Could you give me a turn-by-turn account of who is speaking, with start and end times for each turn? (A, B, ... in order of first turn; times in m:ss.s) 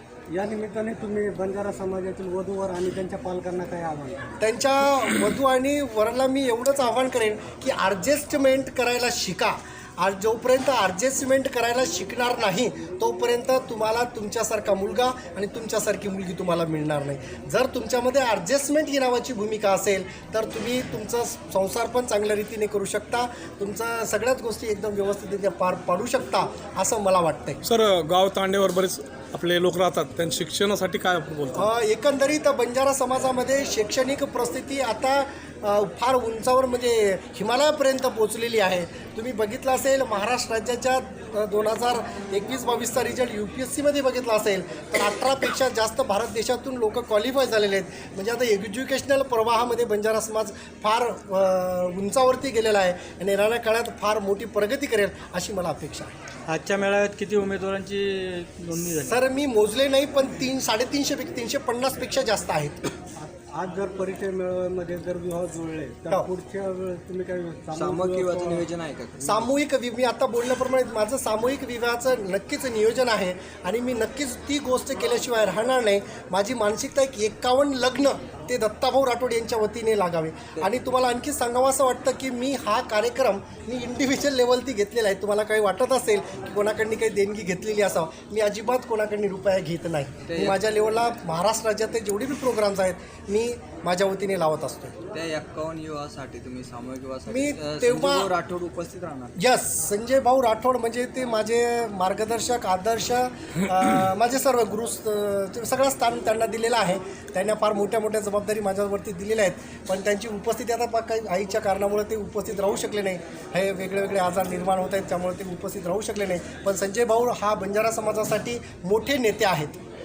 0:00.3-0:04.4 A
0:04.4-0:27.6 B
0:27.6-0:31.5 C
0:31.5-0:56.1 B
0:56.5-0:59.2 D
0:59.0-1:02.8 B
1:03.2-1:08.6 A
1:07.7-1:09.5 E
1:09.2-1:35.0 B
1:30.3-1:30.6 E
1:35.1-1:39.3 E
1:37.3-1:38.3 B
1:39.4-1:59.8 B